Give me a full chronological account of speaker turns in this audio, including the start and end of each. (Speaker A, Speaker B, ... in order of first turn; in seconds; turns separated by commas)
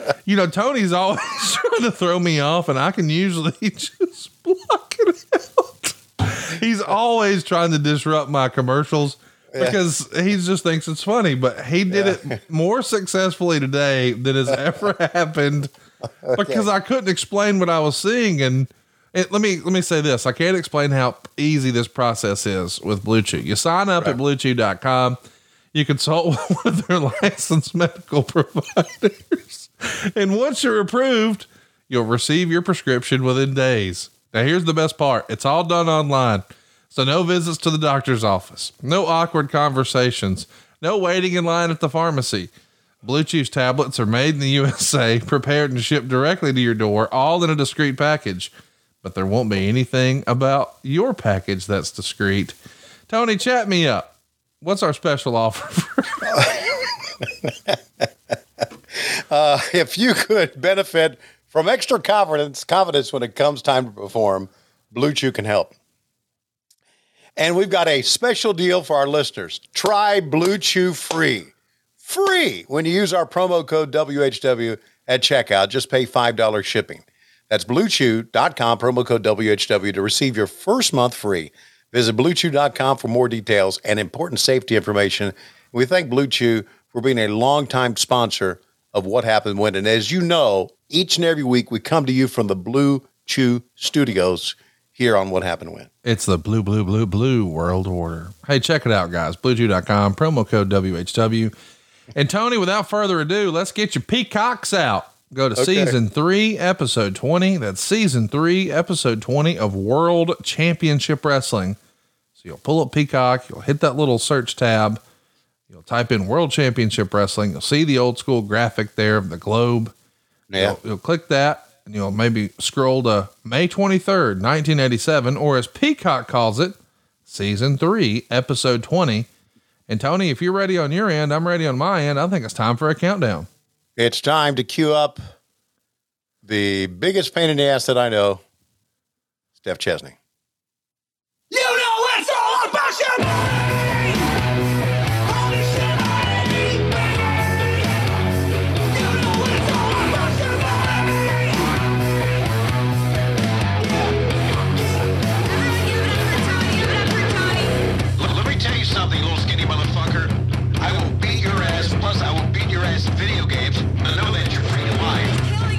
Speaker A: 0.3-15.7, Speaker B: 11.9-12.4, Speaker B: 16.1-16.7, Speaker A: 16.4-25.2, Speaker A: 25.7-42.5, Speaker A: 43.0-48.5, Speaker A: 49.0-52.5, Speaker A: 53.1-54.1, Speaker A: 54.6-56.2, Speaker B: 56.2-58.1, Speaker B: 59.0-65.8, Speaker B: 67.4-95.9, Speaker A: 96.0-101.5, Speaker A: 102.2-111.8, Speaker B: 105.6-105.9, Speaker A: 112.4-115.0, Speaker A: 115.7-119.9, Speaker B: 120.5-120.8, Speaker A: 120.6-126.8, Speaker A: 127.3-129.3, Speaker A: 129.9-133.5, Speaker B: 134.0-135.2, Speaker B: 136.4-138.4, Speaker B: 139.6-140.2, Speaker C: 141.5-143.4, Speaker C: 145.4-146.2, Speaker C: 149.2-150.4, Speaker B: 158.2-165.4